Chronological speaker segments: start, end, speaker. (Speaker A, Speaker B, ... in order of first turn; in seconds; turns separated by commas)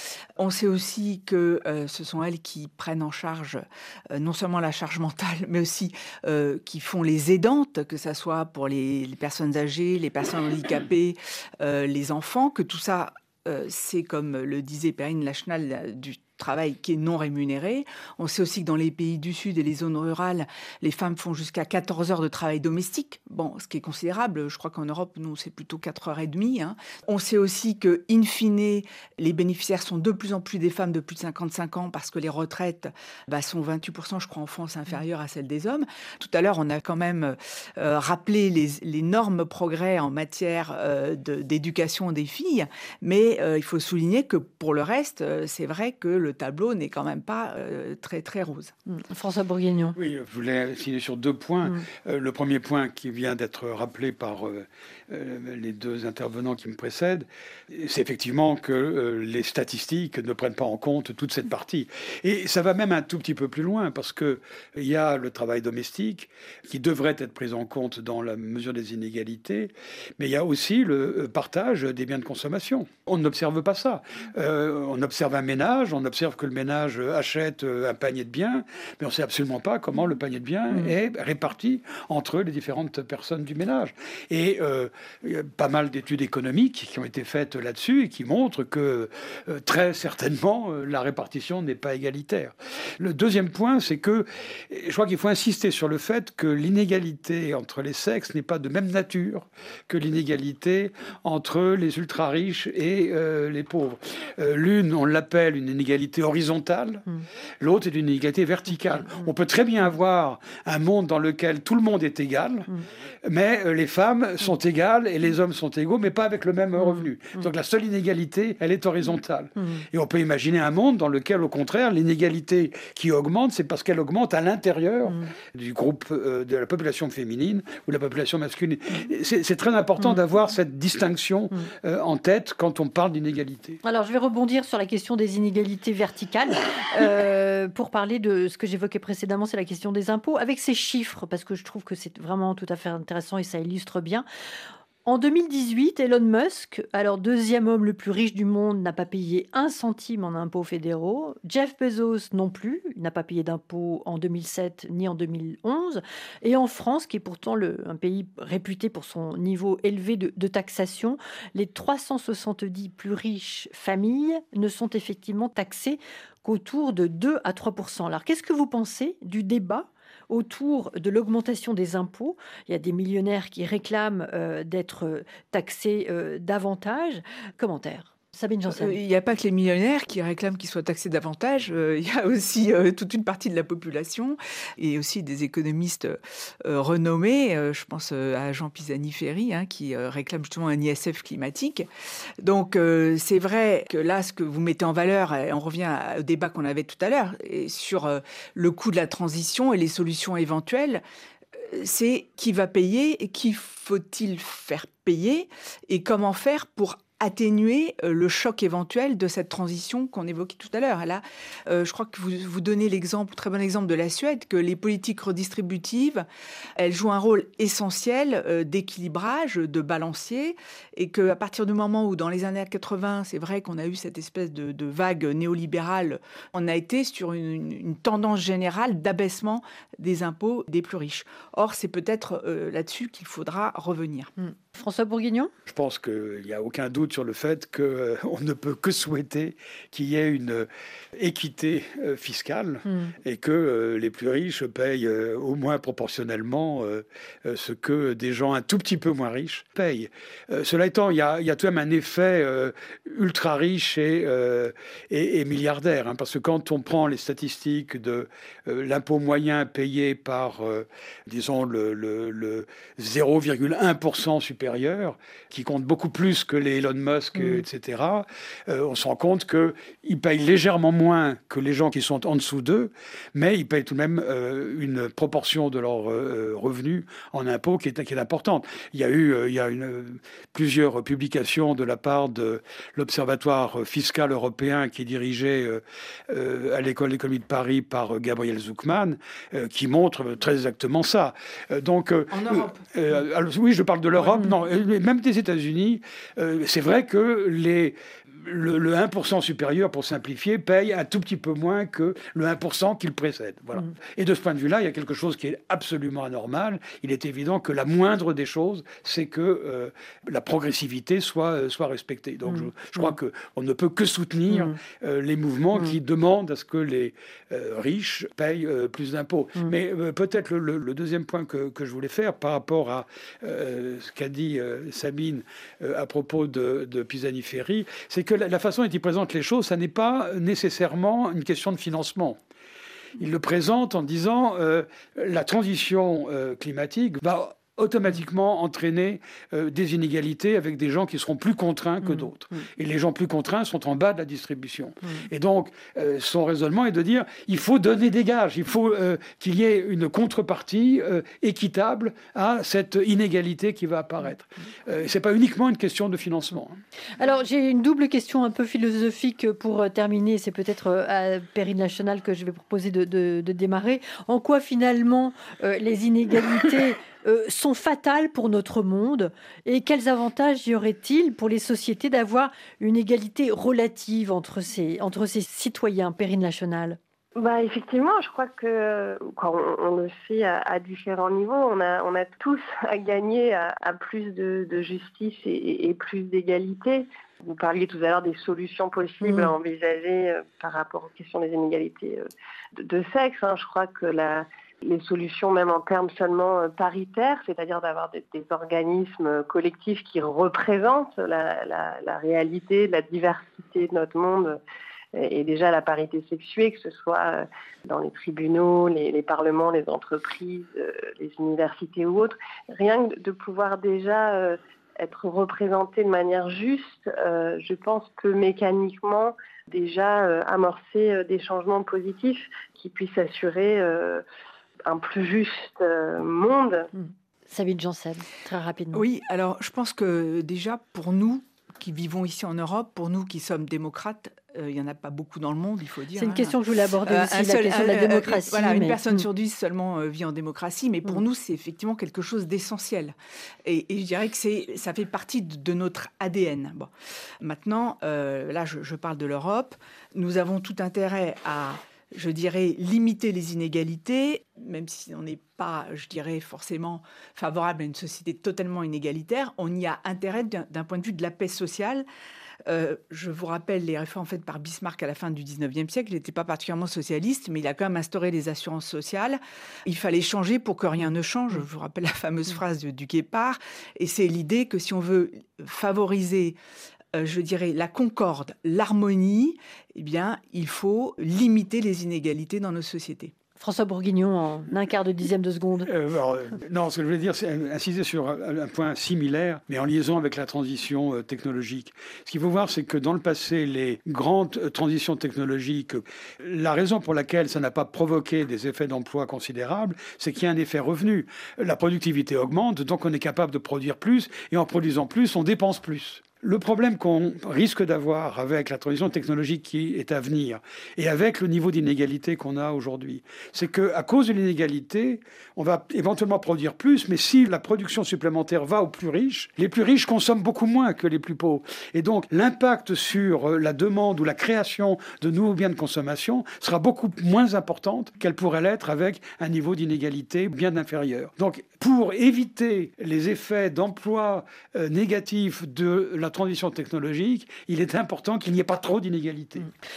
Speaker A: 0.4-48.7, Speaker B: 48.9-50.0, Speaker C: 50.0-133.8, Speaker B: 133.8-144.2, Speaker B: 145.0-179.0, Speaker A: 178.7-191.9, Speaker A: 192.4-201.0, Speaker A: 201.6-216.2, Speaker A: 216.8-234.3, Speaker B: 234.4-235.5, Speaker C: 235.7-332.4, Speaker A: 292.3-292.8, Speaker C: 333.2-356.8, Speaker B: 357.2-377.0, Speaker D: 377.4-392.2, Speaker B: 389.2-389.5, Speaker D: 392.8-404.6, Speaker D: 405.1-424.2, Speaker D: 424.9-426.9, Speaker B: 426.9-429.0, Speaker A: 428.9-462.1, Speaker B: 436.1-439.1, Speaker A: 462.6-476.6, Speaker A: 477.1-483.3, Speaker B: 483.6-485.9, Speaker C: 485.9-539.7